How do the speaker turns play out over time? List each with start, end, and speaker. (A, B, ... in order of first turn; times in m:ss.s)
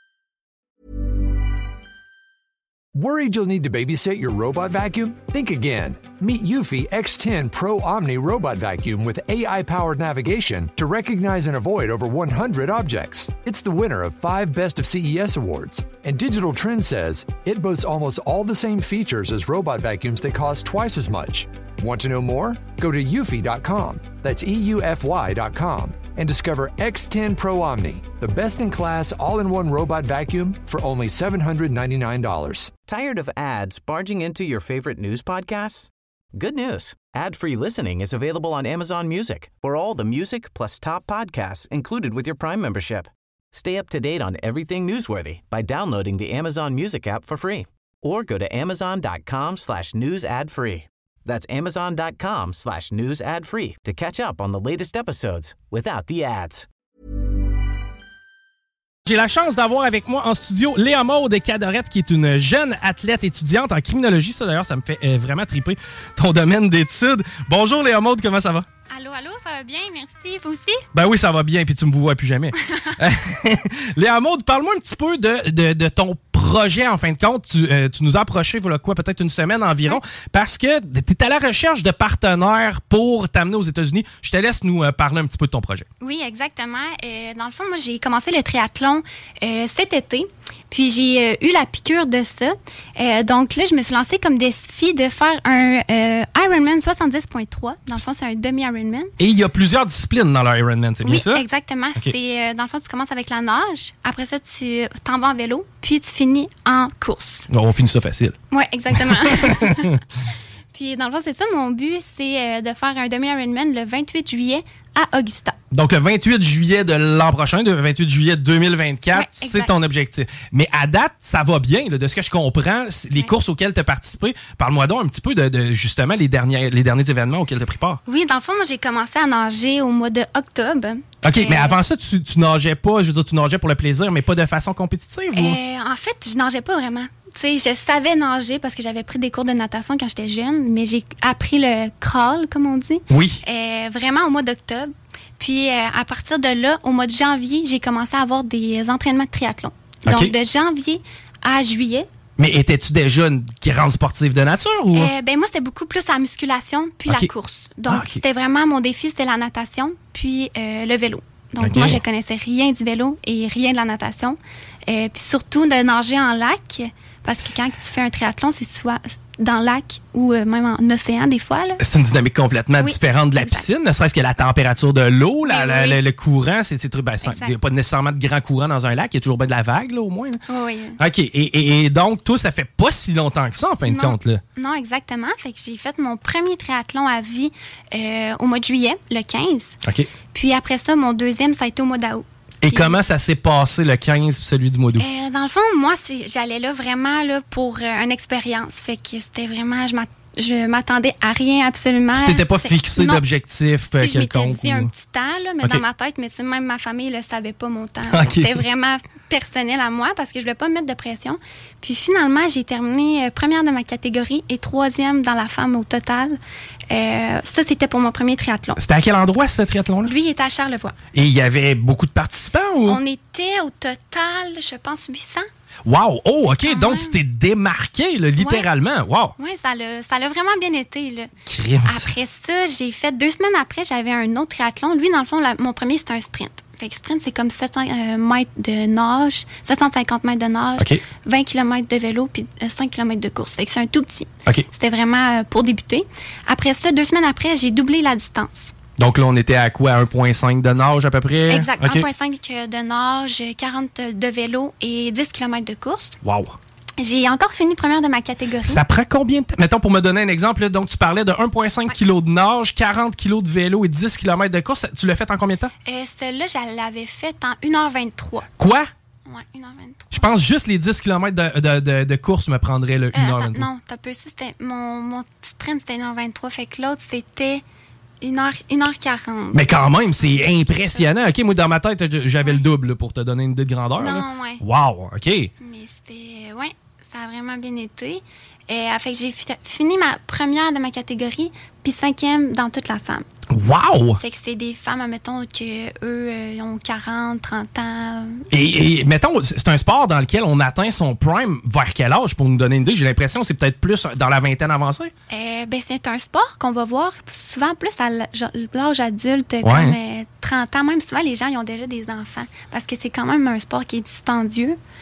0:02.9-0:32.7 A
0:32.9-0:56.7 B
0:59.1-1:08.7 C
1:08.9-1:10.8 D
1:10.9-1:25.8 C
1:26.0-1:39.1 D
1:39.2-1:41.4 C
1:41.0-1:47.5 D
1:47.5-1:48.4 C
1:48.5-1:49.9 D
1:48.9-1:50.0 C
1:50.7-1:55.6 D
1:55.7-2:08.0 C
1:59.1-1:59.7 D
2:08.1-2:11.8 D
2:11.2-2:15.6 C
2:15.3-2:32.1 D
2:23.1-2:23.4 C
2:30.0-2:30.3 C
2:32.4-2:35.1 C
2:34.9-2:51.8 D
2:37.9-2:38.2 C
2:41.6-2:42.0 C
2:51.8-3:00.4 C
2:52.8-2:53.6 D
2:55.4-2:56.0 D
2:57.2-2:57.5 D
3:00.5-3:01.0 D
3:01.0-3:04.4 C
3:03.9-3:09.7 D
3:09.8-3:10.2 C
3:10.3-3:13.0 D
3:12.6-3:15.0 C
3:15.0-3:23.2 D
3:22.1-3:24.9 C
3:24.0-3:36.4 D
3:28.1-3:28.6 C
3:36.9-3:38.8 D
3:38.8-3:40.1 C
3:40.0-3:40.9 D
3:41.1-3:43.0 C
3:42.8-3:45.4 D
3:45.8-3:49.3 C
3:46.6-3:47.2 D
3:48.4-3:48.7 D
3:49.4-3:51.3 D
3:51.4-3:52.1 C
3:51.8-4:08.7 D
4:00.8-4:01.0 C
4:09.0-4:12.0 C
4:11.5-4:16.2 D
4:16.2-4:16.6 C
4:17.0-4:18.8 D
4:18.6-4:25.7 C
4:25.8-4:28.5 D
4:28.5-4:28.9 C
4:29.2-4:30.3 D
4:30.1-4:33.7 C
4:33.1-4:37.6 D
4:38.2-4:41.1 D
4:39.5-4:45.5 C
4:44.0-4:44.6 D
4:45.6-4:53.2 D
4:53.5-4:54.2 C
4:54.2-4:58.4 D
4:58.5-5:05.1 C
5:05.3-5:14.8 D
5:09.6-5:10.0 C